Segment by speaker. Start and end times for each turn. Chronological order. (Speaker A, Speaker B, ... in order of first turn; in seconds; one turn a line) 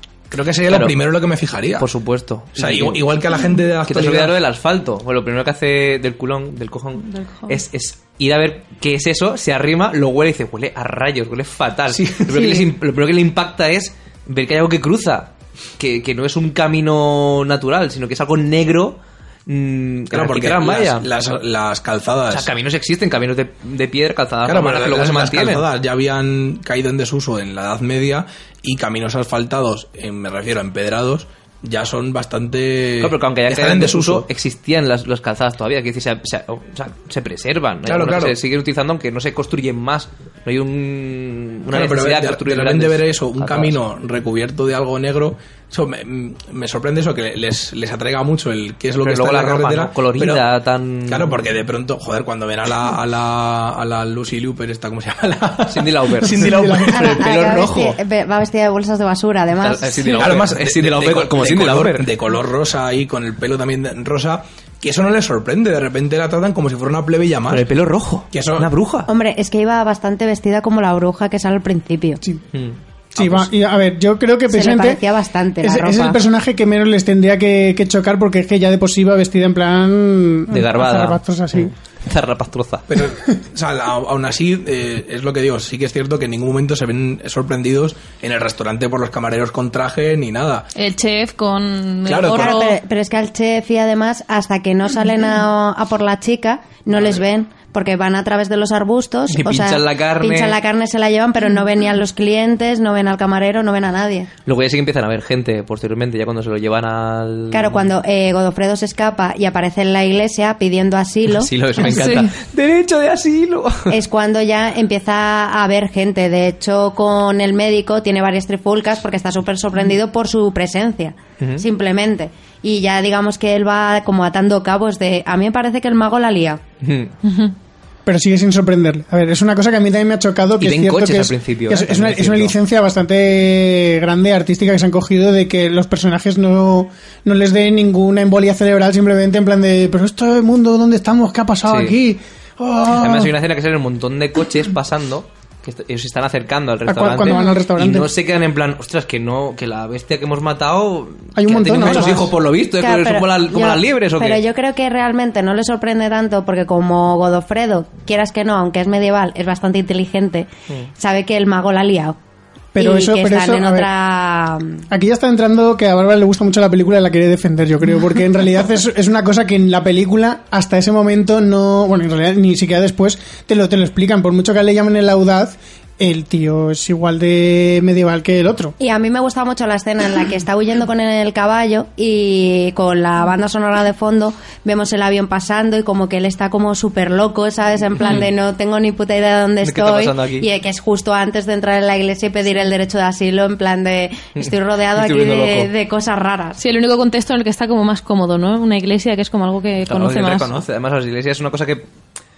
Speaker A: 0.3-1.9
Speaker B: 0.7-0.9
Speaker B: 1.8-3.0
Speaker A: 2.6-4.4
Speaker B: 3.9-21.1
Speaker C: 7.0-7.6
Speaker A: 11.9-12.7
Speaker A: 20.1-22.5
Speaker B: 22.3-25.6
Speaker A: 24.5-34.3
Speaker B: 33.0-43.8
Speaker A: 37.9-38.4
Speaker A: 41.7-50.5
Speaker B: 49.0-51.4
Speaker A: 51.1-57.4
Speaker B: 55.7-58.0
Speaker D: 56.3-57.2
Speaker E: 56.9-60.2
Speaker B: 59.6-62.1
Speaker A: 60.2-67.7
Speaker B: 67.5-69.1
Speaker A: 68.3-68.7
Speaker E: 69.1-72.2
Speaker B: 72.5-73.5
Speaker D: 73.2-75.0
Speaker E: 74.5-76.2
Speaker D: 75.6-81.7
Speaker B: 80.5-82.9
Speaker A: 82.9-90.7
Speaker C: 90.8-92.8
Speaker A: 92.1-92.6
Speaker E: 92.4-104.3
Speaker B: 99.3-100.6
Speaker B: 104.5-107.9
Speaker E: 107.5-111.5
Speaker B: 111.3-114.0
Speaker C: 111.8-112.3
Speaker E: 113.9-126.6
Speaker B: 121.4-121.7
Speaker B: 126.8-127.1
Speaker C: 127.2-127.5
Speaker D: 128.1-143.3
Speaker B: 130.6-132.6
Speaker B: 141.7-142.0
Speaker B: 142.9-154.4
Speaker D: 146.9-148.1
Speaker D: 151.3-152.3
Speaker E: 151.9-152.2
Speaker E: 152.8-162.2
Speaker D: 162.8-163.9
Speaker E: 162.8-164.8
Speaker D: 164.9-178.8
Speaker E: 178.8-196.6
Speaker B: 189.6-190.5
Speaker B: 194.4-195.7
Speaker C: 196.6-200.6
Speaker B: 199.9-201.9